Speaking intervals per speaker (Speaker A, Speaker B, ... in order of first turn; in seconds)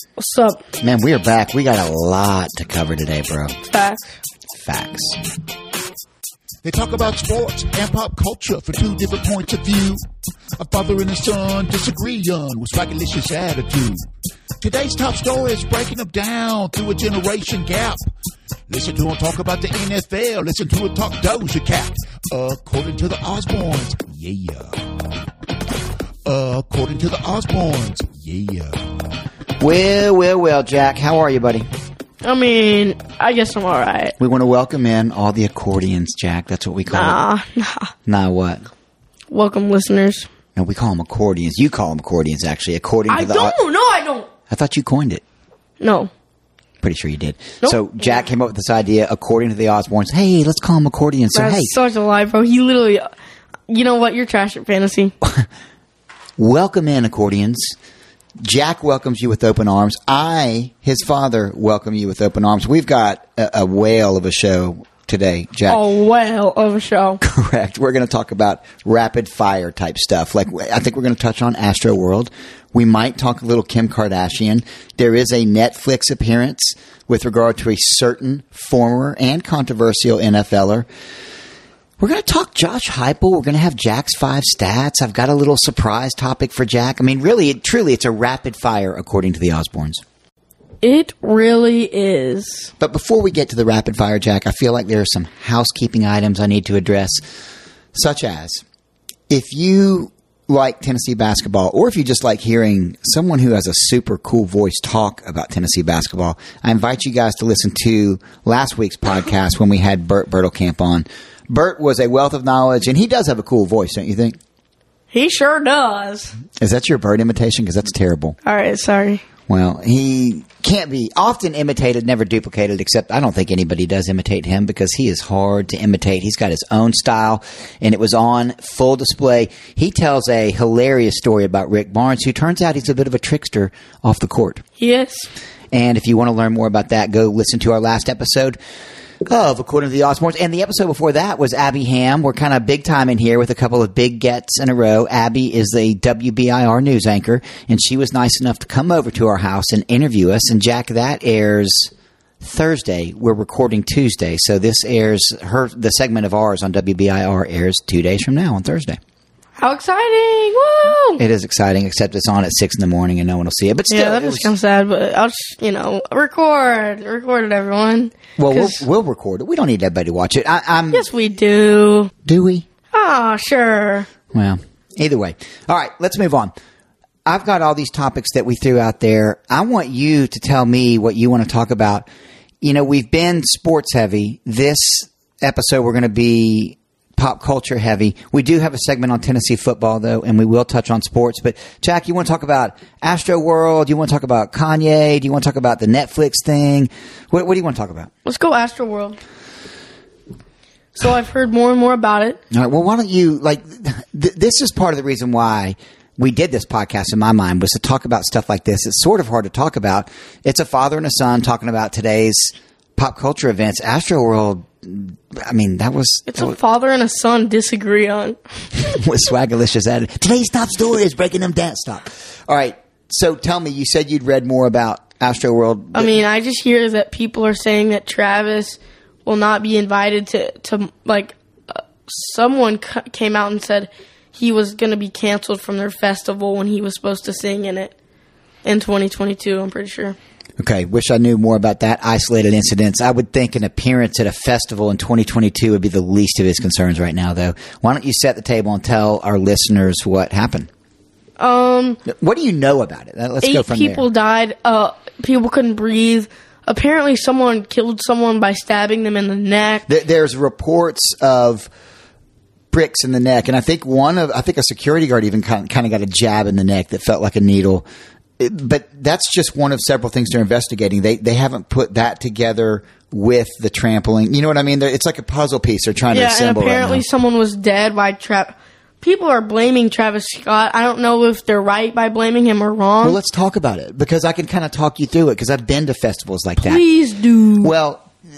Speaker A: 0.2-0.6, 3.7-4.2, 32.2-34.1, 36.9-37.9, 39.3-40.3, 43.1-44.3, 45.8-46.1, 51.3-53.1, 53.7-55.1, 65.7-67.2, 90.8-92.7, 115.1-116.3, 118.4-119.2, 134.8-135.3, 159.6-161.2, 163.9-168.8, 170.9-172.1, 172.9-174.1, 198.2-199.2, 200.9-202.4, 216.3-218.4, 225.9-237.9, 238.6-240.2, 251.4-252.0, 253.4-259.9, 276.1-283.2, 286.6-287.7
Speaker B: 0.8-3.5, 4.5-5.2, 29.6-31.7, 34.2-37.2, 38.0-38.6, 40.5-43.6, 44.5-45.2, 46.8-51.8, 56.4-57.7, 58.4-65.8, 67.2-80.9, 82.0-90.0, 92.8-97.2, 97.9-98.6, 99.3-114.4, 116.6-118.3, 119.5-134.6, 135.7-138.6, 139.3-159.0, 161.2-164.5, 168.4-171.0, 172.2-172.7, 174.3-176.5, 177.2-182.1, 182.6-198.1, 202.5-216.6, 218.8-226.1, 240.6-250.7, 252.1-254.0, 259.9-261.7, 262.7-267.8, 268.4-277.0, 283.0-286.8, 287.6-288.1
Speaker C: 6.6-10.0, 10.6-14.1, 14.6-18.0, 18.7-24.8, 26.2-28.9